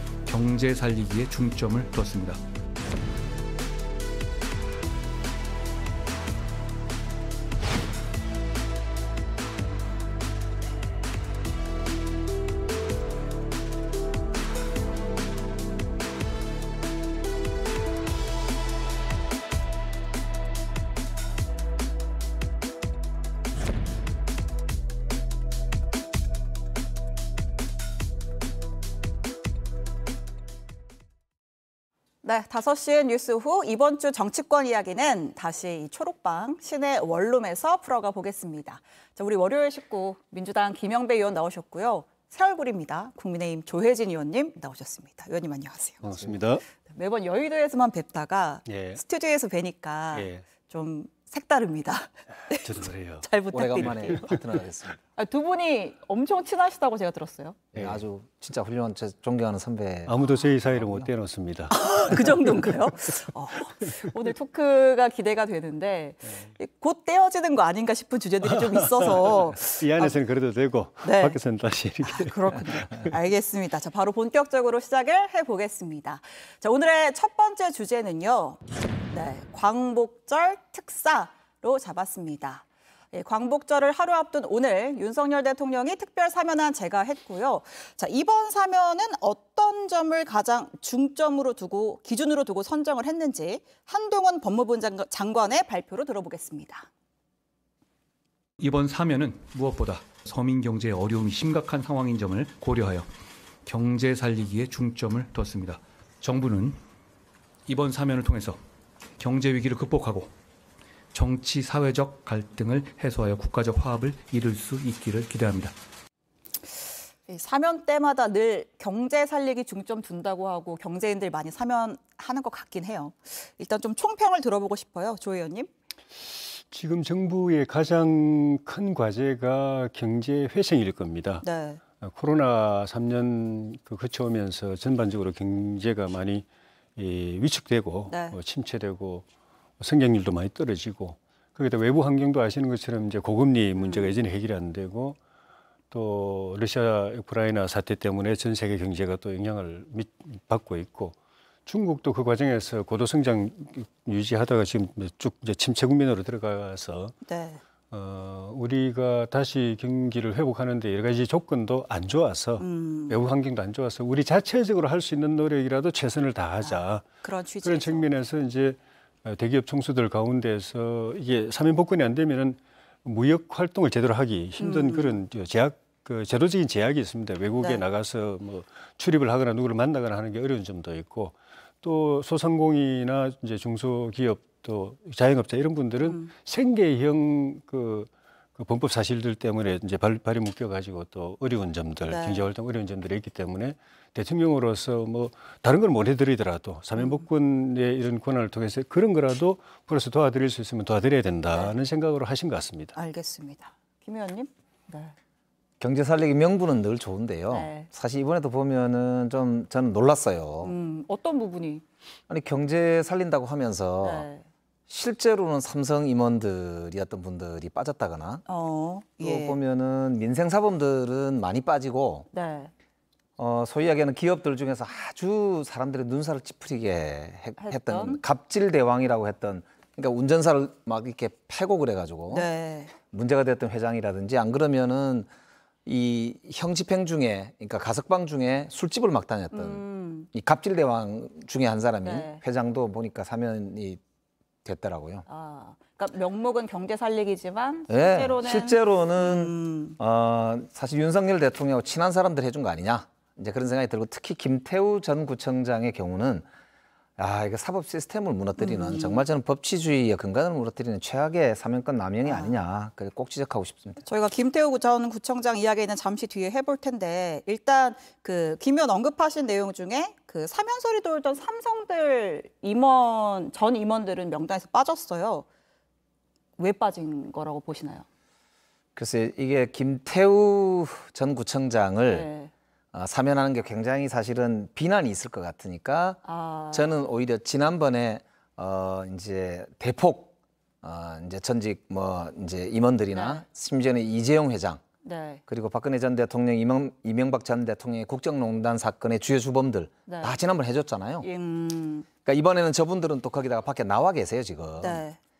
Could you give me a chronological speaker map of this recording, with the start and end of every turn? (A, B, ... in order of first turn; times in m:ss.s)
0:00.2-0:02.4 A
0:32.2-0:46.1 B
0:46.0-0:46.6 C
0:46.8-0:54.4 B
0:48.7-0:49.0 C
0:50.2-0:50.4 C
0:52.6-0:53.3 C
0:53.5-0:55.0 D
0:55.2-0:57.6 B
0:57.7-0:58.0 C
0:57.7-1:01.1 D
1:00.1-1:01.8 C
1:01.7-1:10.2 B
1:08.4-1:13.1 C
1:11.0-1:11.4 B
1:12.0-1:36.9 B
1:38.6-1:43.1 A
1:43.7-1:46.8 A
1:47.7-1:48.6 A
1:49.2-1:50.3 A
1:51.1-1:55.7 A
1:57.3-2:05.7 B
2:06.5-2:11.5 C
2:11.4-2:11.8 B
2:12.0-2:19.3 C
2:18.1-2:18.4 B
2:19.8-2:25.2 C
2:23.8-2:24.2 B
2:25.9-2:37.2 C
2:37.2-2:37.6 B
2:37.9-2:47.1 C
2:42.6-2:43.2 B
2:46.6-2:48.1 B
2:47.6-3:23.0 C
2:54.6-2:55.2 B
3:06.1-3:06.3 B
3:12.1-3:12.4 B
3:17.0-3:17.2 B
3:23.0-3:25.1 B
3:25.8-3:30.7 D
3:27.5-3:27.9 B
3:30.6-3:31.8 B
3:32.3-3:34.3 D
3:34.0-3:34.4 B
3:34.9-3:38.4 D
3:38.5-3:39.6 B
3:39.2-3:42.3 D
3:42.3-3:42.7 B
3:43.4-3:52.5 D
3:47.6-3:48.2 B
3:52.3-3:52.9 B
3:53.0-3:55.3 D
3:55.9-4:04.0 D
3:59.5-4:00.3 B
4:02.0-4:02.4 B
4:04.6-4:05.2 D
4:05.3-4:10.0 B
4:07.9-4:16.5 D
4:17.2-4:24.0 D
4:18.6-4:19.3 B
4:22.2-4:22.6 B
4:24.0-4:35.5 B
4:36.6-4:38.0 B
4:39.0-4:42.3 D
4:42.1-4:42.5 B
4:42.9-4:46.2 D
4:46.2-4:46.9 B
4:46.7-4:54.8 D
4:53.1-4:53.4 B
4:55.0-4:55.4 B
4:55.5-5:01.3 D
5:00.1-5:00.4 B
5:01.2-5:02.1 B
5:02.2-5:05.0 D
5:04.8-5:05.2 B